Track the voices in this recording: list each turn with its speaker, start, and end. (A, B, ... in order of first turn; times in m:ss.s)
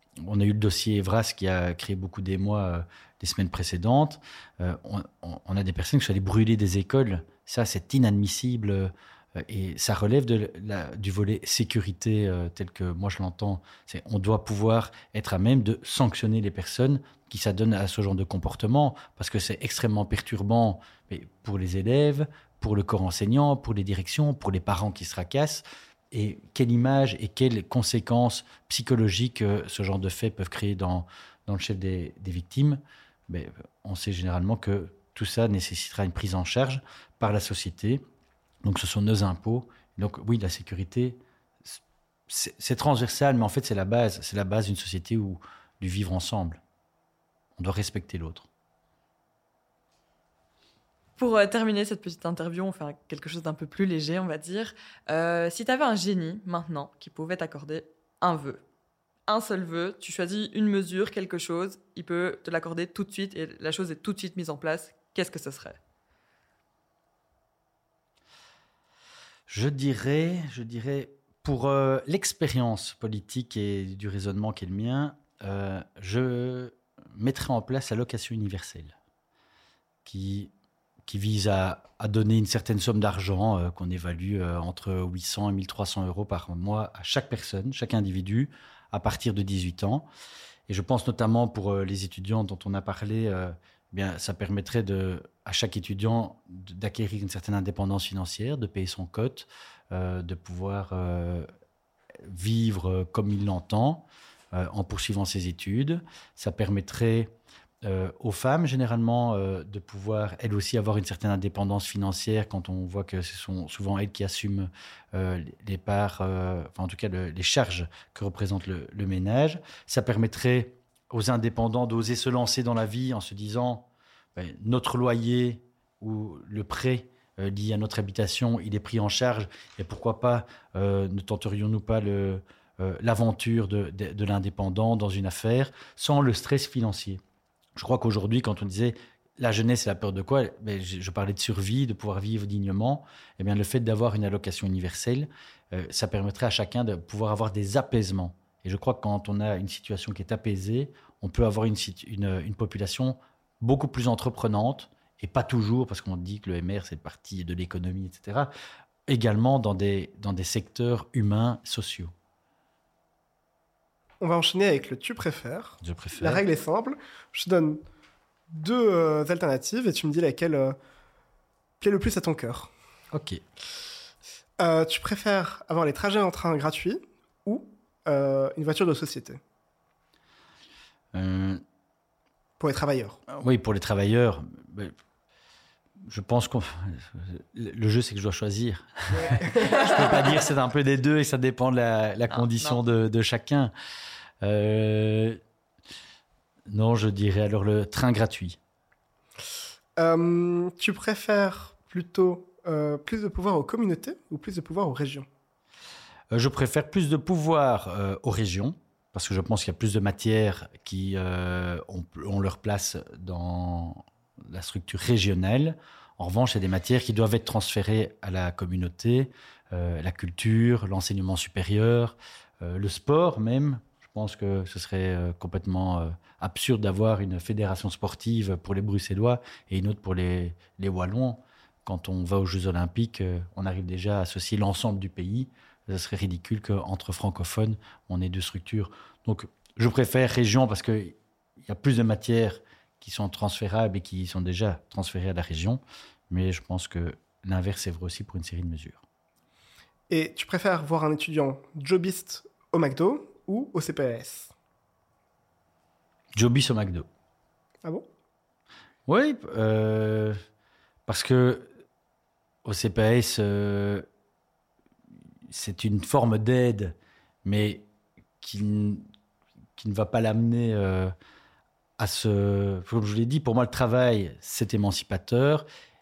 0:00.2-0:38.0 A
0:38.6-0:46.6 A
0:47.6-0:48.5 A
0:51.2-0:58.6 B
0:59.3-1:05.8 B
1:09.5-1:19.0 A
1:20.0-1:20.5 A
1:21.1-1:30.1 A
1:30.7-1:41.5 A
1:42.2-2:17.2 A
2:17.8-2:38.5 A
2:39.1-2:42.1 A
2:44.2-2:47.8 C
2:45.8-2:46.4 A
2:48.5-2:50.8 C
2:51.8-2:52.7 C
2:53.1-2:53.4 A
2:54.6-2:59.4 C
3:01.1-3:01.6 A
3:02.6-3:03.2 C
3:03.3-3:04.9 A
3:06.0-3:13.7 A
3:09.1-3:10.1 C
3:12.3-3:12.8 B
3:14.4-3:15.4 A
3:16.7-3:18.6 A
3:20.0-3:25.3 C
3:26.3-4:09.0 A
4:10.1-4:14.5 C
4:16.3-4:17.1 A
4:19.1-4:20.4 A
4:21.1-4:21.7 A
4:22.6-4:24.1 A
4:25.5-4:27.9 A
4:28.4-4:29.1 A
4:29.8-4:31.1 A
4:32.0-4:35.7 A